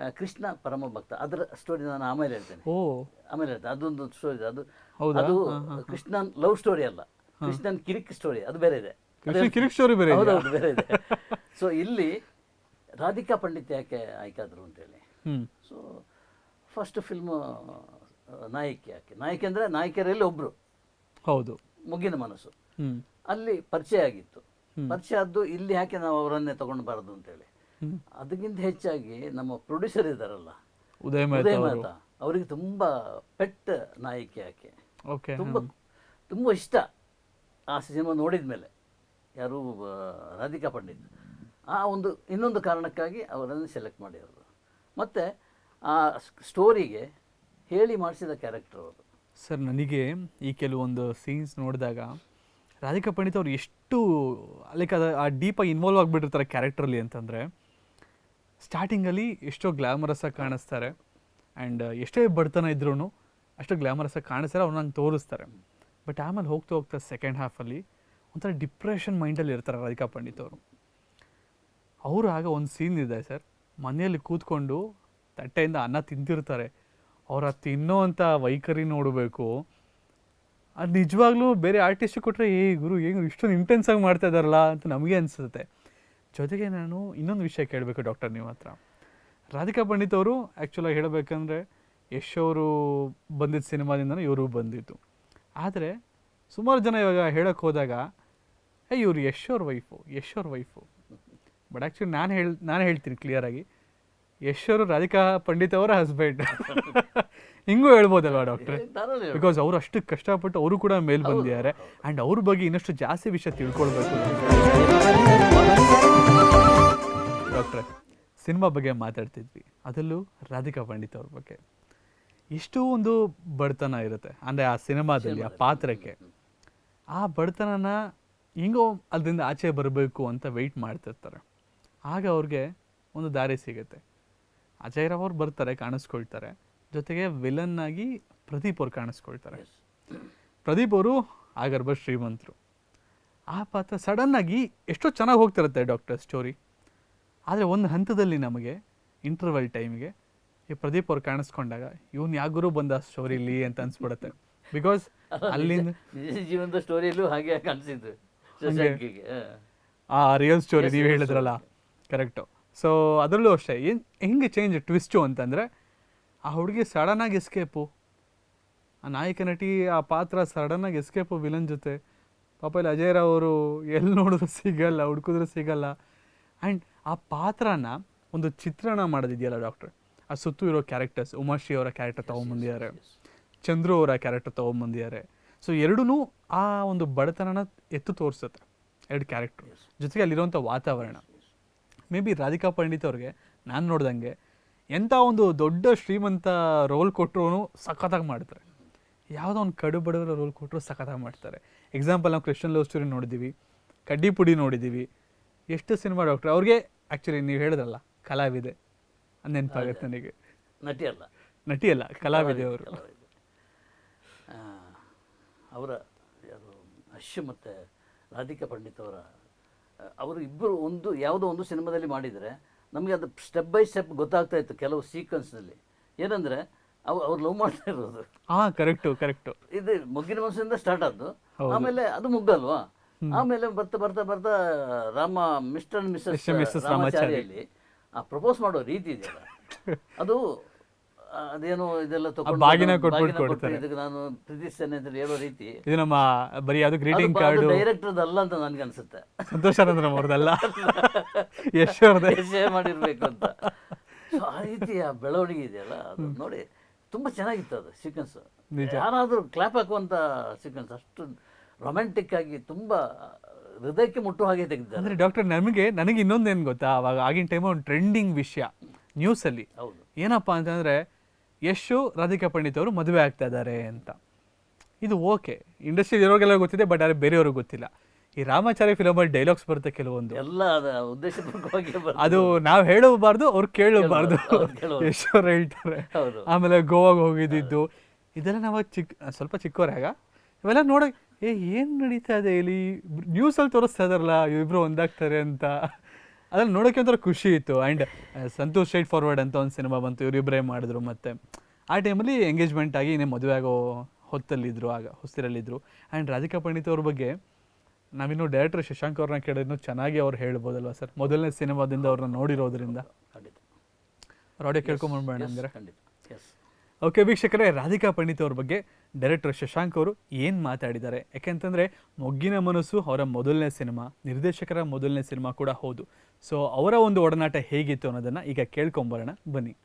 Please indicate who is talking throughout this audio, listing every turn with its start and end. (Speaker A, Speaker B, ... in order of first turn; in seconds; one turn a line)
Speaker A: 0.1-2.6
Speaker B: 2.7-3.0
Speaker A: 3.3-12.2
Speaker B: 5.0-6.0
Speaker B: 9.2-11.2
Speaker A: 13.0-15.0
Speaker A: 15.6-16.0
Speaker A: 16.7-17.9
Speaker A: 18.5-20.5
Speaker B: 21.3-21.6
Speaker A: 21.9-22.5
Speaker A: 23.3-27.5
Speaker A: 28.2-30.6
Speaker B: 31.0-31.9
Speaker A: 31.3-34.7
Speaker B: 35.1-35.7
Speaker A: 35.4-35.7
Speaker A: 36.3-36.8
Speaker A: 37.7-38.7
Speaker A: 39.4-41.1
Speaker A: 41.7-44.4
Speaker A: 45.0-45.2
Speaker A: 45.9-47.0
Speaker A: 47.7-49.0
Speaker B: 49.4-52.1
Speaker B: 52.8-57.5
Speaker B: 58.6-60.9
Speaker B: 61.6-63.1
Speaker B: 63.6-65.5
Speaker B: 66.0-70.6
Speaker B: 72.1-74.8
Speaker B: 75.4-76.7
Speaker B: 77.3-79.5
Speaker B: 80.8-85.7
Speaker B: 86.3-88.8
Speaker B: 89.6-91.6
Speaker B: 92.2-95.0
Speaker B: 95.6-95.9
Speaker B: 96.5-98.0
Speaker B: 98.9-100.8
Speaker B: 101.7-103.6
Speaker B: 104.5-108.8
Speaker A: 106.5-107.0
Speaker A: 108.4-109.5
Speaker B: 109.3-114.4
Speaker A: 111.2-112.0
Speaker A: 114.4-116.5
Speaker B: 117.5-117.8
Speaker B: 118.4-121.6
Speaker B: 122.5-126.1
Speaker A: 125.2-126.3
Speaker B: 127.2-127.9
Speaker B: 128.6-131.4
Speaker B: 132.1-134.0
Speaker B: 134.8-139.6
Speaker A: 139.5-139.8
Speaker B: 140.6-142.5
Speaker B: 143.5-146.5
Speaker B: 147.5-150.1
Speaker B: 150.7-155.9
Speaker A: 155.3-159.6
Speaker B: 158.7-159.0
Speaker B: 160.1-161.6
Speaker A: 160.8-161.7
Speaker B: 162.1-165.7
Speaker B: 166.5-167.9
Speaker B: 169.0-172.0
Speaker B: 172.6-175.9
Speaker B: 176.6-182.9
Speaker A: 182.2-183.2
Speaker B: 183.6-191.2
Speaker A: 191.0-191.5
Speaker B: 192.1-194.3
Speaker B: 194.9-198.6
Speaker B: 199.3-203.5
Speaker B: 204.1-205.1
Speaker B: 205.7-208.7
Speaker B: 209.4-210.3
Speaker A: 209.7-210.1
Speaker A: 210.8-211.3
Speaker B: 211.7-213.0
Speaker A: 212.3-213.3
Speaker A: 214.5-215.0
Speaker A: 215.7-217.8
Speaker A: 218.3-219.2
Speaker A: 220.2-228.3
Speaker B: 228.5-229.6
Speaker A: 229.7-237.6
Speaker B: 231.6-231.9
Speaker B: 236.3-237.5
Speaker A: 238.2-239.5
Speaker A: 241.3-245.8
Speaker B: 242.4-243.8
Speaker B: 245.8-247.8
Speaker A: 247.1-251.5
Speaker B: 249.5-251.2
Speaker B: 251.7-253.7
Speaker A: 252.2-253.6
Speaker A: 254.3-261.3
Speaker B: 258.8-259.0
Speaker A: 261.8-263.0
Speaker A: 263.8-265.2
Speaker B: 265.0-269.7
Speaker A: 269.8-270.1
Speaker B: 270.2-271.0
Speaker B: 271.7-274.1
Speaker B: 275.0-277.9
Speaker B: 278.4-280.4
Speaker A: 280.3-282.6
Speaker B: 282.2-295.7
Speaker A: 284.0-285.1
Speaker A: 286.1-286.5
Speaker B: 296.5-301.4
Speaker B: 301.9-307.3
Speaker B: 308.2-313.0
Speaker A: 312.0-313.6
Speaker B: 314.6-315.7
Speaker A: 314.8-316.5
Speaker B: 317.0-329.7